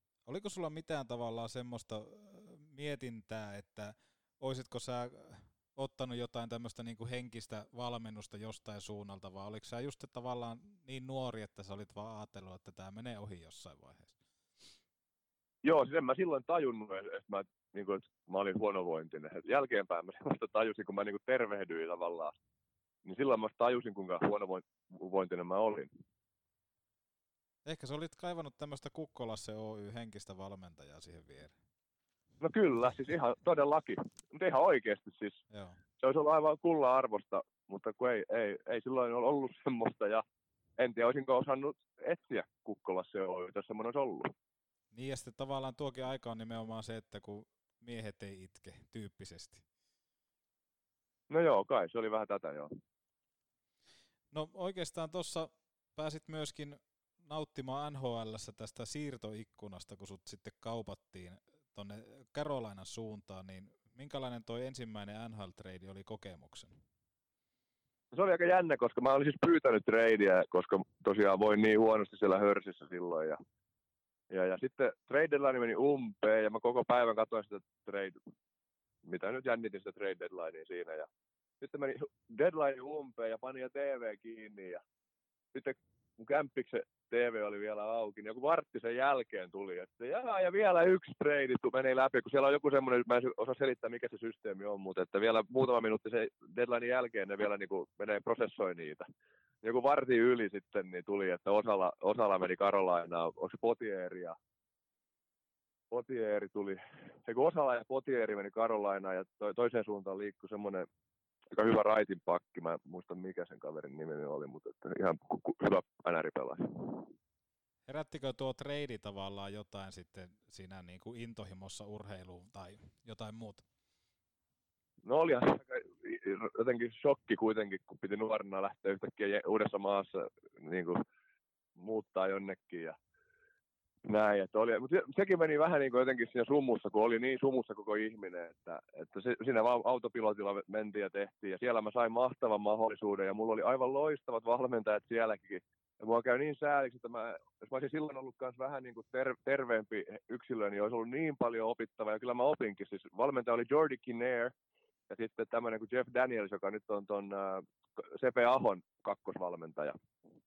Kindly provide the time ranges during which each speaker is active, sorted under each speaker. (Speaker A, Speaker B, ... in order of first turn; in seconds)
Speaker A: 0.3-14.2, 27.7-31.6, 35.5-35.8, 44.9-49.6, 54.3-66.8, 117.9-123.6
Speaker B: 15.6-22.4, 23.1-25.9, 32.4-35.4, 36.0-40.2, 40.8-44.3, 51.3-52.7, 68.1-73.4, 74.3-78.2, 79.1-81.1, 81.6-84.8, 85.5-99.1, 99.6-104.4, 105.9-110.9, 111.5-117.1, 125.0-131.0, 131.8-133.0, 134.1-154.5, 155.1-160.0